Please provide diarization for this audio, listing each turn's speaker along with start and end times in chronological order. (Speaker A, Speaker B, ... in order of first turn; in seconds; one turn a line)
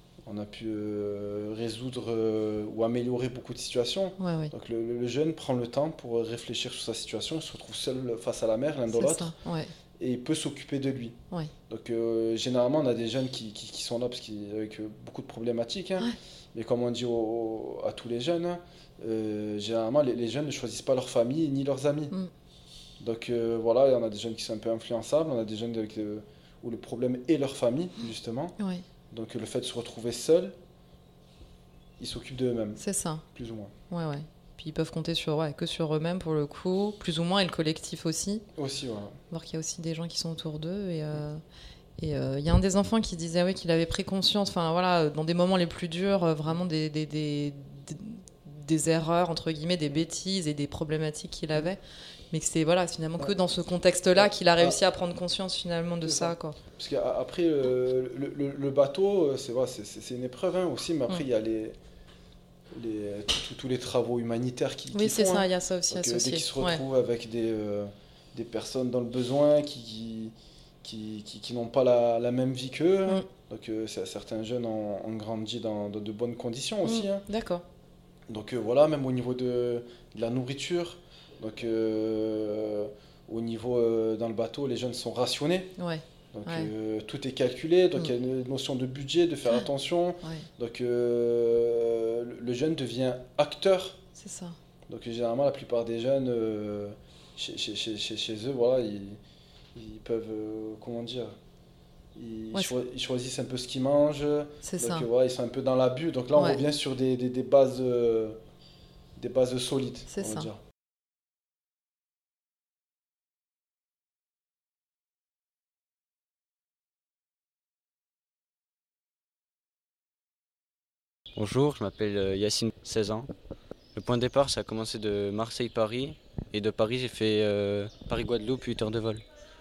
Speaker A: 0.2-9.3
Speaker B: 4.2-4.5
Speaker B: 8.9-9.7
Speaker A: 10.0-11.2
Speaker A: 11.7-22.1
Speaker A: 23.0-28.6
Speaker B: 28.6-28.8
Speaker A: 29.1-30.6
Speaker A: 32.0-32.8
Speaker B: 32.8-33.2
Speaker A: 33.3-33.7
Speaker B: 33.9-38.5
Speaker A: 38.5-39.1
Speaker B: 39.3-41.4
Speaker B: 42.0-51.8
Speaker B: 52.3-56.6
Speaker A: 54.2-54.8
Speaker A: 56.0-61.8
Speaker A: 62.7-77.2
Speaker B: 64.9-66.8
Speaker B: 76.8-77.6
Speaker A: 78.3-85.7
Speaker B: 85.8-86.7
Speaker A: 86.3-94.0
Speaker B: 94.2-94.5
Speaker A: 94.9-99.2
Speaker A: 99.7-101.3
Speaker A: 102.1-108.4
Speaker B: 104.6-105.1
Speaker B: 106.3-106.6
Speaker A: 109.2-110.6
Speaker B: 110.1-110.5
Speaker C: 121.3-123.3
Speaker C: 123.9-129.2